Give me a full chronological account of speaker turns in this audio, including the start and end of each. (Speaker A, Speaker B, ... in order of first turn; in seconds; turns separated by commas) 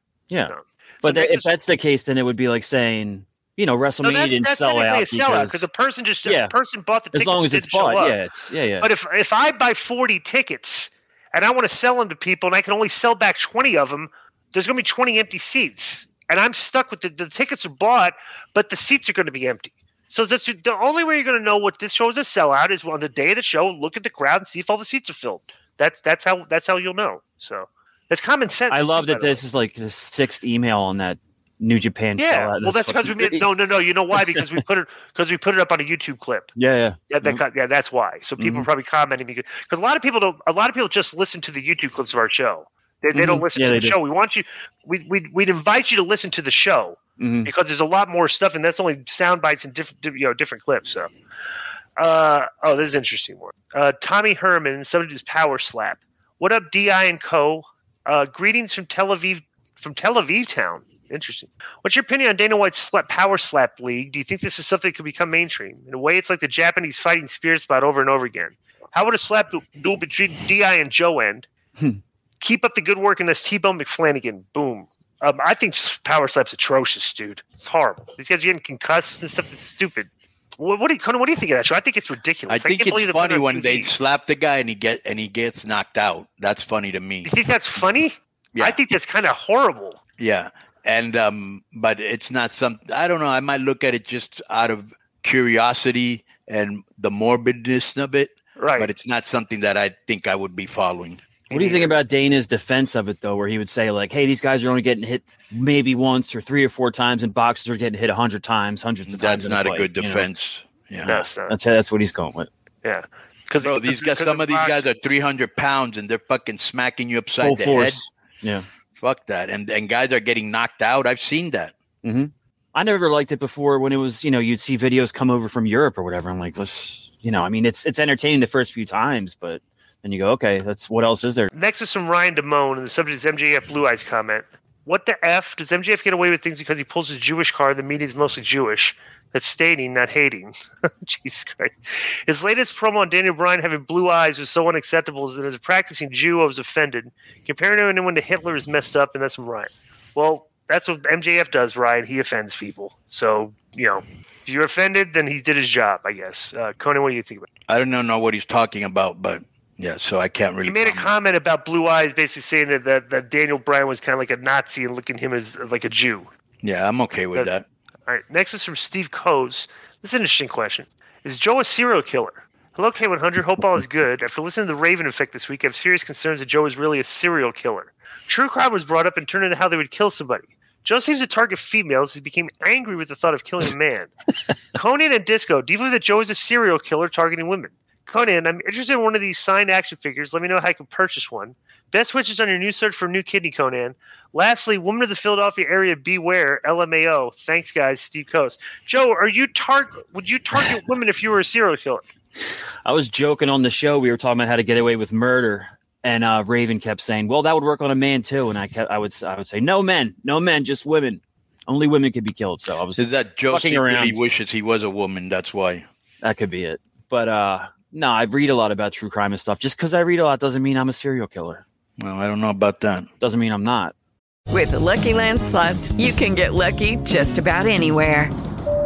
Speaker A: 0.3-5.7, Speaker B: 0.5-1.5, Speaker B: 4.0-8.2, Speaker A: 6.2-6.5, Speaker A: 7.1-8.9, Speaker B: 8.8-29.4, Speaker A: 28.7-33.5, Speaker B: 32.2-36.5, Speaker A: 34.1-34.4, Speaker A: 36.5-37.4, Speaker B: 37.1-51.1, Speaker A: 38.4-38.7, Speaker A: 43.1-44.0, Speaker A: 47.2-47.5, Speaker B: 52.0-71.5, Speaker B: 72.4-83.9, Speaker C: 82.5-87.3, Speaker B: 87.2-90.0, Speaker C: 88.5-88.8, Speaker C: 90.2-101.2, Speaker B: 98.6-98.9, Speaker B: 101.5-101.9, Speaker A: 101.5-110.2, Speaker C: 109.1-111.2, Speaker B: 111.0-111.5, Speaker A: 111.1-112.5, Speaker B: 112.8-114.9, Speaker C: 113.6-118.0, Speaker A: 117.4-118.7, Speaker C: 119.0-121.7, Speaker A: 122.0-131.5, Speaker B: 131.5-141.8, Speaker B: 142.3-157.5, Speaker C: 157.7-161.1, Speaker B: 160.7-166.3, Speaker C: 166.6-167.6, Speaker B: 168.1-184.1, Speaker B: 184.7-202.1, Speaker A: 202.8-214.2, Speaker C: 212.9-215.8, Speaker A: 216.2-221.6, Speaker C: 222.0-223.1, Speaker A: 223.2-223.9, Speaker D: 224.5-228.3